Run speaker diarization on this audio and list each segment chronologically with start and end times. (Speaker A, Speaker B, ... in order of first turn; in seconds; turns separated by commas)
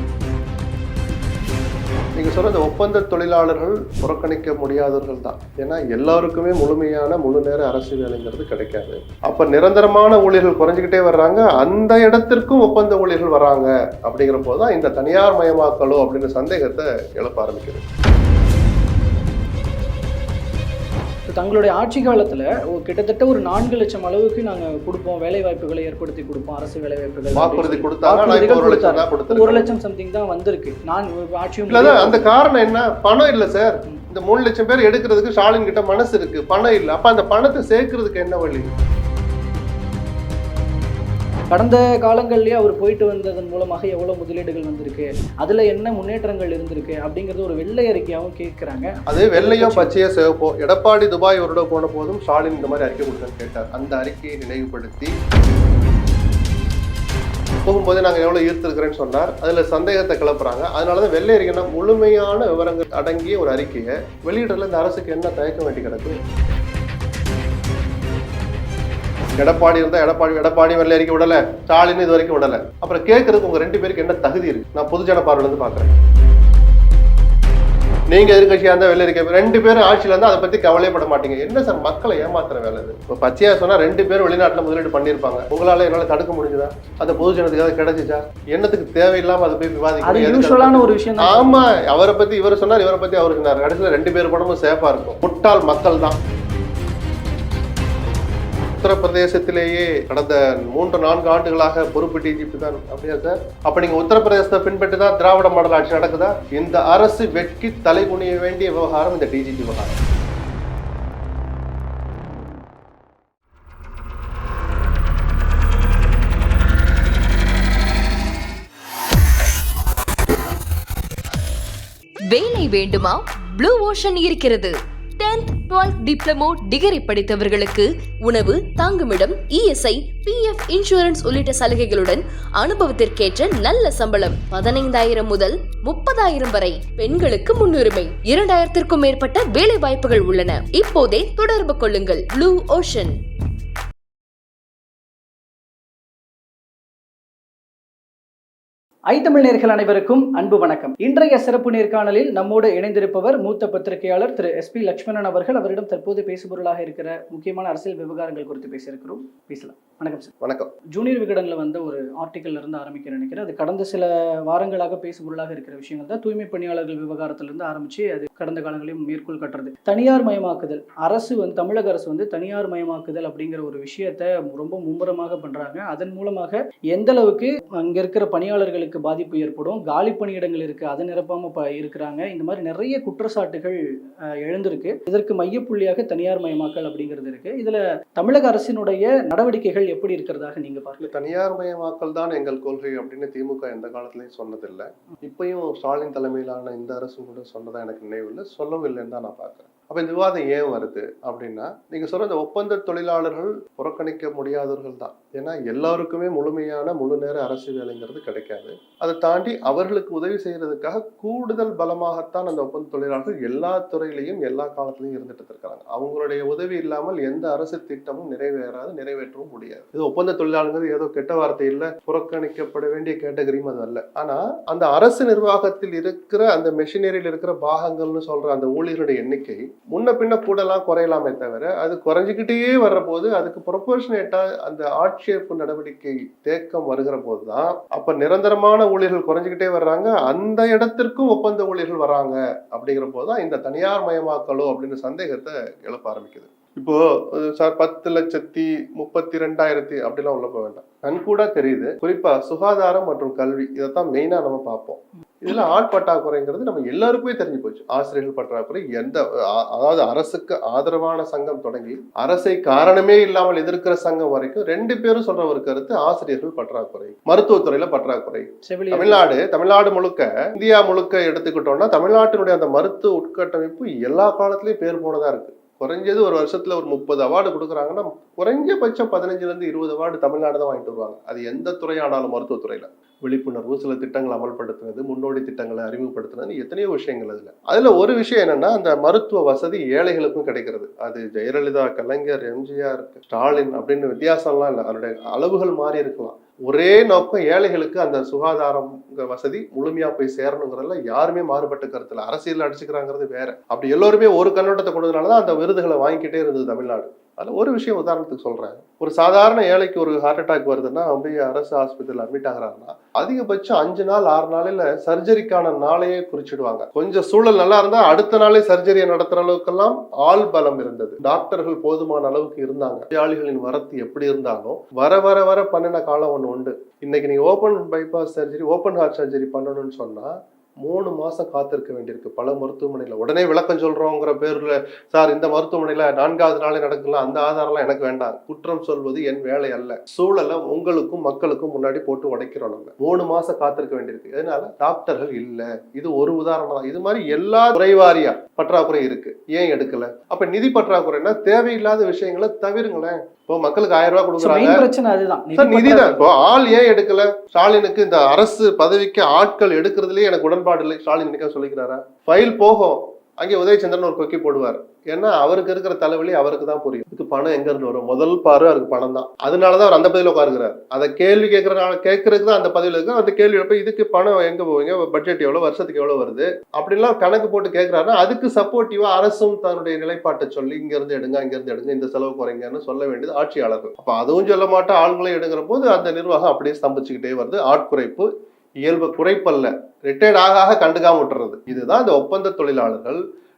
Speaker A: 2.1-17.8, Speaker B: 21.3-32.3, Speaker A: 27.3-29.6, Speaker A: 31.7-38.7, Speaker B: 41.5-49.9, Speaker A: 49.1-55.1, Speaker A: 57.6-66.2, Speaker A: 69.4-75.9, Speaker A: 78.1-96.2, Speaker B: 90.0-91.7, Speaker A: 98.8-110.0, Speaker C: 122.3-143.2, Speaker B: 149.1-160.3, Speaker A: 160.4-160.7, Speaker B: 160.9-183.8, Speaker B: 184.4-191.1, Speaker A: 191.0-330.3, Speaker B: 268.6-269.3, Speaker A: 330.8-354.8, Speaker B: 354.4-356.3, Speaker A: 355.5-388.3, Speaker A: 388.8-393.2